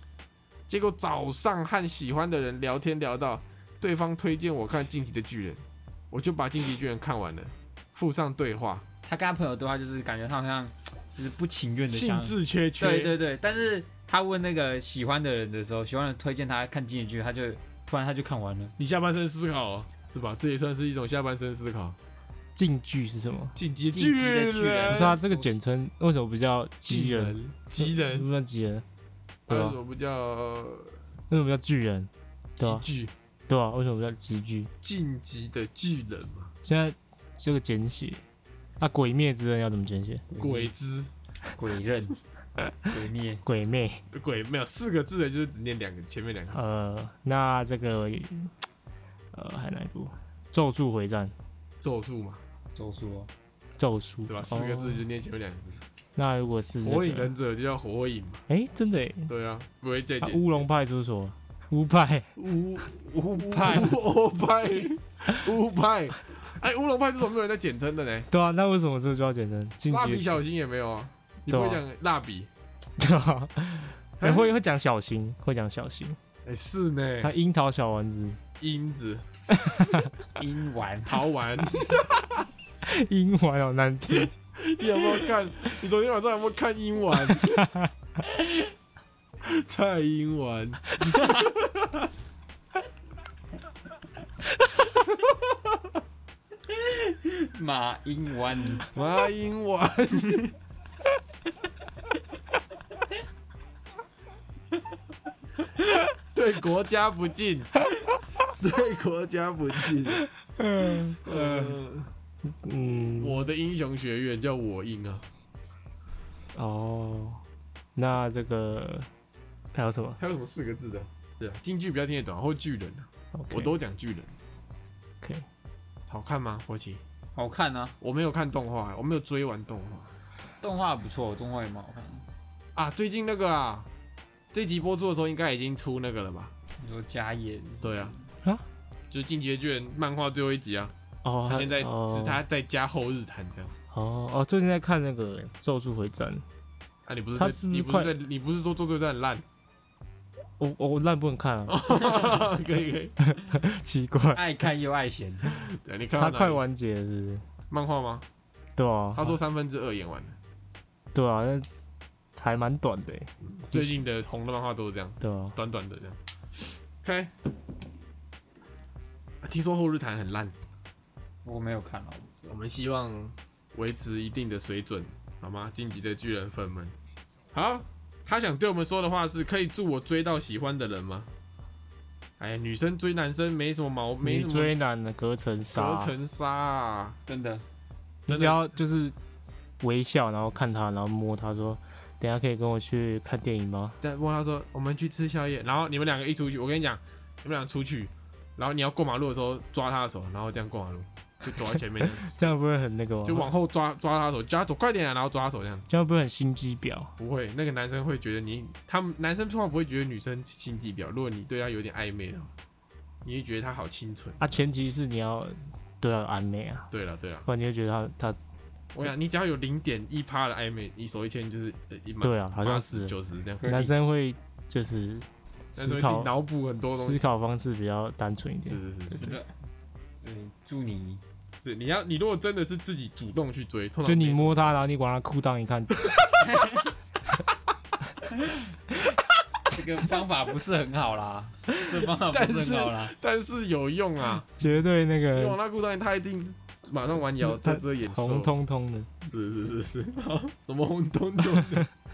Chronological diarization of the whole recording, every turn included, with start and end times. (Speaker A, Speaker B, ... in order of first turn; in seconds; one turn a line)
Speaker A: 0.7-8.8
Speaker B: 9.0-18.8
Speaker A: 11.9-13.2
Speaker A: 18.8-22.0
Speaker C: 22.6-23.6
Speaker A: 23.6-25.2
Speaker B: 23.9-25.5
Speaker C: 24.9-28.9
Speaker A: 26.9-28.3
Speaker C: 29.5-29.8
Speaker A: 29.5-31.0
Speaker C: 31.3-32.8
Speaker A: 32.6-33.1
Speaker C: 33.5-34.7
Speaker A: 34.8-36.5
Speaker C: 36.6-38.2
Speaker C: 38.8-40.2
Speaker B: 40.3-40.7
Speaker A: 40.4-41.1
Speaker B: 41.6-42.2
Speaker B: 42.9-43.4
Speaker C: 43.4-44.0
Speaker A: 44.1-46.6
Speaker C: 46.5-48.5
Speaker C: 49.3-51.3
Speaker A: 51.8-52.4
Speaker B: 52.8-53.3
Speaker C: 53.8-55.0
Speaker A: 54.3-55.8
Speaker C: 56.2-57.3
Speaker A: 56.8-58.4
Speaker C: 58.5-59.3
Speaker A: 59.3-60.6
Speaker C: 60.2-62.3
Speaker A: 62.4-68.3
Speaker B: 63.0-64.0
Speaker C: 68.3-70.4
Speaker A: 69.9-72.5
Speaker C: 71.5-71.8
Speaker C: 73.0-76.2
Speaker A: 74.2-74.5
Speaker A: 76.5-77.3
Speaker C: 77.2-78.4
Speaker A: 78.6-79.2
Speaker C: 79.5-80.1
Speaker B: 80.4-81.2
Speaker A: 81.1-82.5
Speaker C: 82.8-84.3
Speaker A: 84.6-87.6
Speaker C: 87.3-87.9
Speaker B: 88.3-88.7
Speaker A: 89.4-92.1
Speaker B: 91.1-91.4
Speaker A: 95.1-95.5
Speaker B: 96.7-98.9
Speaker A: 98.9-100.5
Speaker A: 106.3-107.7
Speaker A: 108.6-110.2
Speaker C: 110.6-111.8
Speaker A: 111.2-112.1
Speaker C: 112.5-113.5
Speaker A: 113.2-115.2
Speaker C: 116.5-117.4
Speaker C: 118.0-119.1
Speaker C: 119.8-120.2
Speaker A: 120.2-124.3
Speaker C: 123.3-123.7
Speaker C: 125.2-125.5
Speaker A: 126.1-127.0
Speaker B: 127.4-128.0
Speaker A: 128.0-130.1
Speaker B: 130.6-132.2
Speaker A: 132.8-133.9
Speaker A: 134.5-136.5
Speaker B: 136.8-138.3
Speaker A: 137.8-138.1
Speaker A: 139.1-140.9
Speaker C: 141.2-142.4
Speaker A: 141.5-143.7
Speaker C: 143.9-146.4
Speaker A: 147.1-149.4
Speaker C: 147.4-148.1
Speaker C: 150.6-152.3
Speaker A: 151.7-153.2
Speaker C: 153.2-154.4
Speaker B: 154.3-155.6
Speaker A: 155.6-156.6
Speaker C: 156.2-157.4
Speaker A: 157.7-158.2
Speaker C: 158.8-159.4
Speaker A: 159.2-160.4
Speaker C: 161.1-161.7
Speaker C: 162.3-164.0
Speaker A: 163.5-166.2
Speaker C: 165.2-165.6
Speaker A: 167.0-167.3
Speaker A: 169.4-170.6
Speaker B: 171.4-172.5
Speaker A: 172.5-176.9
Speaker A: 177.5-181.3
Speaker A: 182.4-184.7
Speaker C: 184.2-186.2
Speaker A: 185.7-187.2
Speaker B: 187.3-187.6
Speaker C: 188.3-189.2
Speaker A: 188.3-188.6
Speaker C: 189.8-194.0
Speaker A: 194.0-202.5
Speaker C: 201.5-203.5
Speaker A: 203.2-205.9
Speaker C: 205.9-207.1
Speaker A: 207.2-212.5
Speaker A: 213.2-214.6
Speaker C: 214.4-216.9
Speaker A: 216.9-217.5
Speaker C: 217.5-218.4
Speaker A: 218.9-223.9
Speaker C: 222.2-226.3
Speaker B: 223.6-223.9
Speaker A: 225.8-227.2
Speaker C: 227.0-229.3
Speaker A: 228.6-229.4
Speaker B: 229.2-229.5
Speaker B: 230.2-231.2
Speaker A: 231.6-234.8
Speaker C: 234.1-236.2
Speaker A: 236.0-236.4
Speaker B: 236.4-236.9
Speaker B: 238.3-238.6
Speaker B: 239.7-243.2
Speaker A: 242.1-244.6
Speaker C: 244.6-245.6
Speaker A: 245.3-248.5
Speaker C: 247.4-249.1
Speaker A: 249.2-251.9